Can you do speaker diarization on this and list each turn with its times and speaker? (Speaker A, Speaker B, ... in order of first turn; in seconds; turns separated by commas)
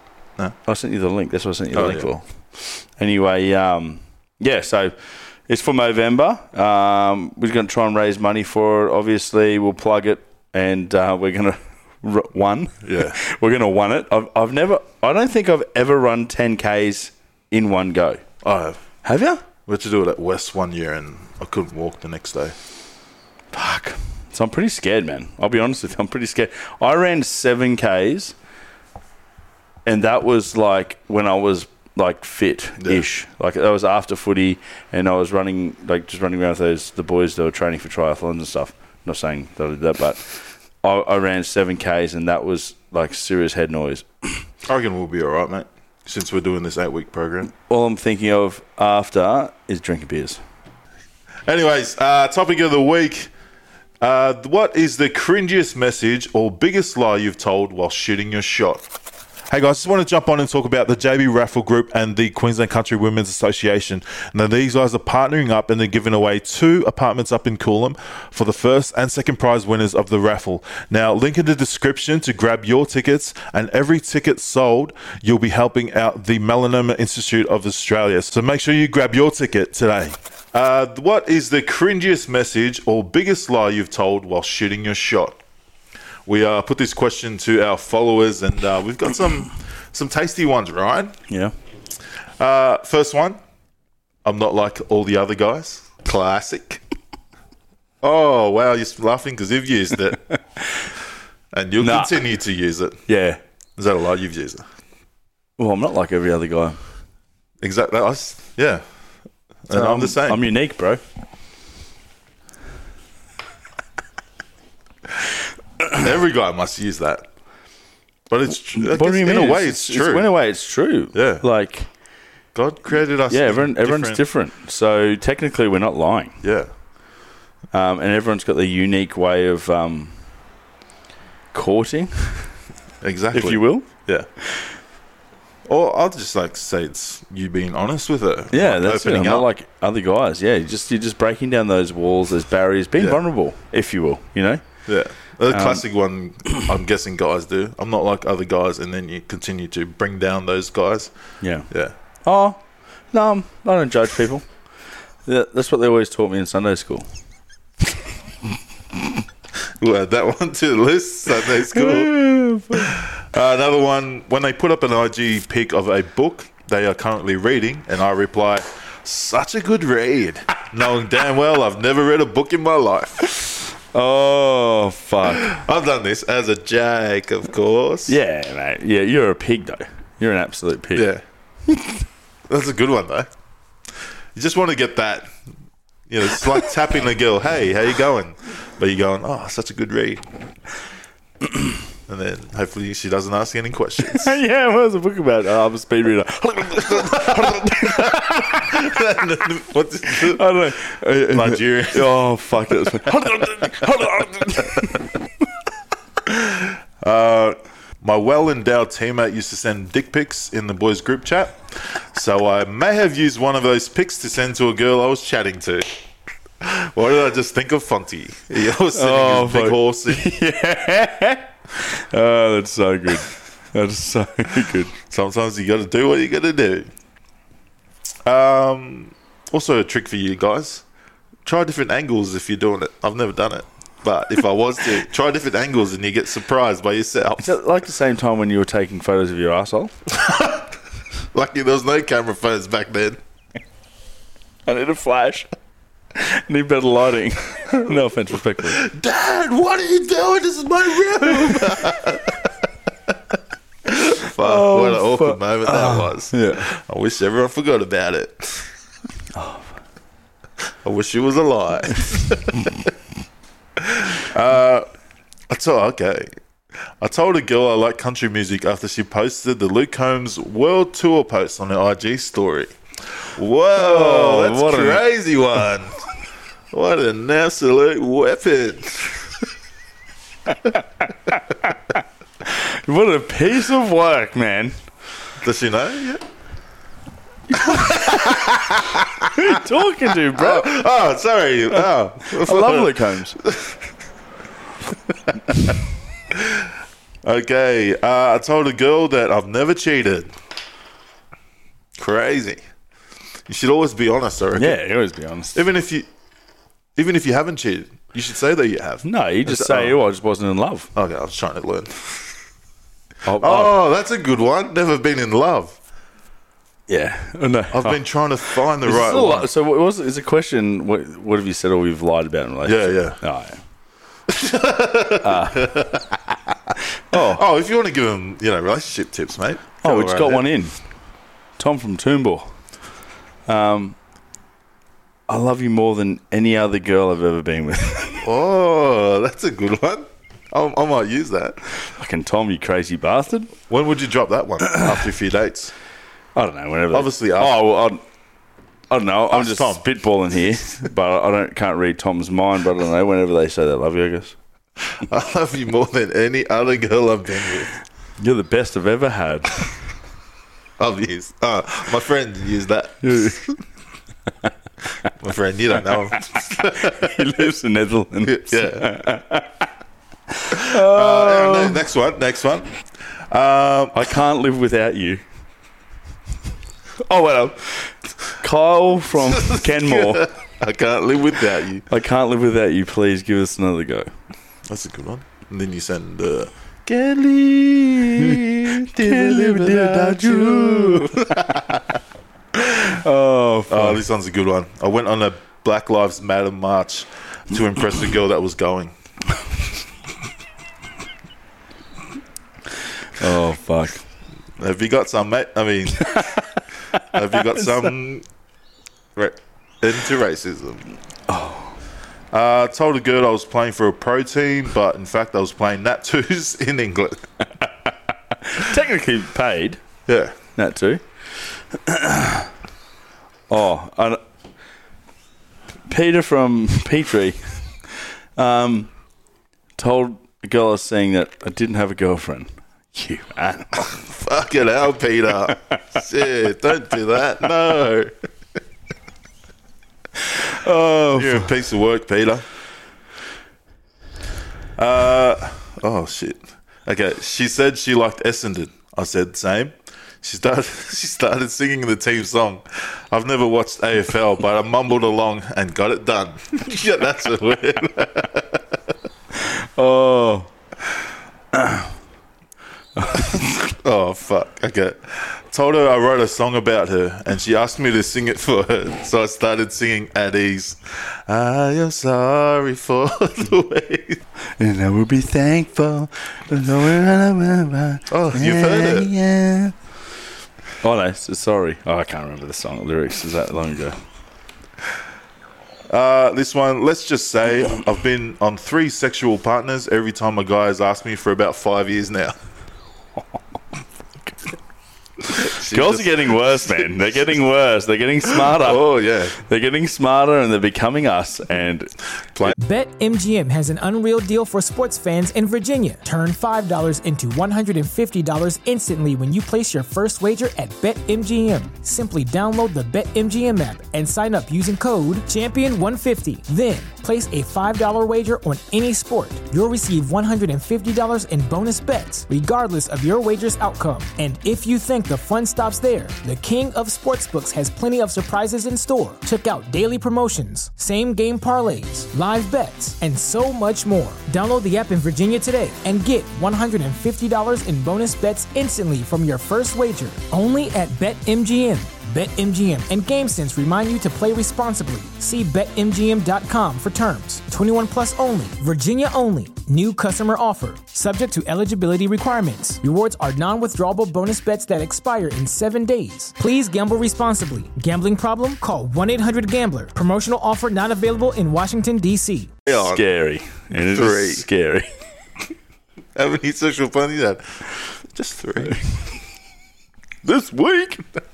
Speaker A: 0.7-18.2, Speaker B: 1.7-2.1, Speaker B: 12.8-13.2, Speaker B: 18.4-18.8, Speaker A: 19.1-19.4, Speaker B: 19.7-22.6, Speaker A: 23.5-28.4, Speaker A: 29.9-44.5, Speaker B: 44.7-47.5, Speaker A: 47.6-50.4, Speaker B: 51.5-53.3, Speaker B: 54.0-58.9, Speaker B: 59.5-85.4, Speaker B: 86.3-91.2, Speaker B: 92.4-93.4, Speaker B: 94.2-96.8, Speaker B: 98.0-100.2, Speaker B: 101.5-103.0, Speaker A: 101.8-102.2, Speaker A: 103.1-103.4, Speaker B: 103.8-104.6, Speaker A: 105.6-106.8, Speaker B: 107.6-108.8, Speaker B: 109.7-110.4, Speaker A: 109.7-111.0, Speaker B: 115.9-117.3, Speaker B: 118.3-120.3, Speaker A: 118.7-121.9, Speaker B: 121.1-121.5, Speaker B: 122.5-124.2, Speaker A: 123.3-126.3, Speaker B: 126.4-126.7, Speaker A: 127.7-130.1, Speaker A: 131.5-132.5, Speaker B: 133.0-134.3, Speaker A: 133.3-133.9, Speaker B: 135.7-139.5, Speaker A: 138.5-144.6, Speaker B: 144.9-151.1, Speaker A: 145.5-145.8, Speaker A: 151.4-151.7, Speaker A: 152.2-154.4, Speaker A: 155.2-157.1, Speaker B: 159.8-173.5, Speaker A: 161.7-163.0, Speaker A: 173.9-175.5, Speaker B: 175.4-178.2, Speaker A: 178.1-181.1, Speaker B: 180.9-181.2, Speaker A: 181.7-182.0, Speaker B: 182.5-183.3, Speaker B: 184.4-185.3, Speaker B: 186.1-190.2, Speaker B: 192.1-194.4, Speaker A: 194.0-198.8, Speaker B: 196.8-200.6, Speaker A: 200.1-205.0, Speaker B: 201.3-202.2, Speaker B: 202.8-205.0, Speaker B: 206.3-215.9, Speaker B: 216.6-220.3, Speaker A: 218.9-224.9, Speaker B: 225.1-226.9, Speaker B: 228.3-230.8, Speaker B: 231.4-237.6, Speaker A: 237.4-239.9, Speaker B: 240.1-240.7, Speaker B: 241.3-243.2, Speaker A: 244.7-245.5, Speaker A: 246.1-248.8, Speaker B: 248.7-252.5, Speaker B: 253.9-258.7, Speaker A: 254.4-256.7, Speaker A: 259.3-259.7, Speaker B: 260.8-262.7, Speaker B: 263.8-264.9, Speaker B: 265.5-266.3, Speaker B: 267.0-272.7, Speaker B: 273.3-276.0, Speaker A: 273.8-275.1, Speaker B: 276.7-279.4, Speaker A: 282.4-284.8, Speaker B: 285.4-286.2, Speaker A: 287.5-288.5, Speaker B: 287.6-289.5, Speaker A: 289.3-290.8, Speaker B: 290.4-293.8, Speaker A: 291.7-293.4, Speaker B: 295.3-295.7, Speaker B: 296.3-296.7, Speaker B: 297.2-300.3, Speaker B: 302.0-302.6, Speaker B: 303.5-304.8, Speaker A: 304.6-305.6, Speaker B: 305.5-306.1, Speaker B: 307.0-310.0, Speaker A: 309.0-310.9, Speaker B: 310.9-312.2, Speaker A: 313.2-313.8, Speaker B: 313.4-315.8, Speaker A: 316.9-318.0, Speaker B: 317.7-319.5, Speaker A: 318.8-323.6, Speaker B: 322.6-323.2, Speaker B: 324.3-326.2, Speaker A: 325.2-325.8, Speaker A: 327.1-327.4, Speaker B: 327.1-330.4, Speaker A: 329.8-330.8, Speaker A: 331.6-332.5, Speaker A: 333.5-334.0, Speaker A: 335.3-338.3, Speaker B: 338.2-341.6, Speaker A: 341.9-343.5, Speaker B: 343.7-345.7, Speaker A: 346.4-348.0, Speaker B: 346.9-347.6, Speaker A: 348.9-354.4, Speaker B: 349.3-349.8, Speaker B: 354.9-357.8, Speaker A: 358.2-359.7, Speaker B: 360.8-363.6, Speaker A: 363.0-363.4, Speaker B: 365.1-367.3, Speaker A: 366.8-369.7, Speaker B: 368.2-368.9, Speaker A: 370.4-371.8, Speaker B: 370.5-372.7, Speaker B: 373.3-374.1, Speaker A: 373.9-375.2, Speaker A: 377.1-380.3, Speaker B: 379.3-381.9, Speaker A: 381.9-384.1, Speaker B: 384.7-391.9, Speaker A: 388.2-391.3, Speaker B: 392.6-393.0, Speaker A: 392.8-394.0, Speaker B: 393.7-398.9, Speaker A: 403.2-404.0, Speaker B: 404.6-406.5, Speaker A: 406.1-406.4, Speaker B: 407.0-408.2, Speaker B: 409.2-410.9, Speaker A: 411.3-411.8, Speaker B: 412.3-417.3, Speaker A: 418.3-419.8, Speaker B: 420.1-420.4, Speaker A: 420.6-421.0, Speaker A: 421.6-422.5, Speaker A: 423.5-424.2, Speaker A: 425.9-428.9, Speaker A: 429.8-433.9, Speaker B: 434.0-438.1, Speaker A: 440.2-441.5, Speaker B: 441.1-442.4, Speaker B: 444.8-458.6, Speaker A: 459.3-460.5, Speaker A: 461.5-461.9, Speaker A: 463.0-463.7, Speaker B: 463.7-474.2, Speaker A: 474.6-479.8, Speaker B: 478.1-479.1, Speaker A: 480.8-484.0, Speaker B: 485.9-492.4, Speaker B: 495.3-496.5, Speaker A: 495.3-502.5, Speaker B: 498.4-499.4, Speaker C: 502.6-562.5, Speaker B: 562.7-563.0, Speaker A: 562.7-564.9, Speaker B: 563.8-564.5, Speaker B: 566.2-567.6, Speaker B: 568.1-568.8, Speaker A: 570.2-571.0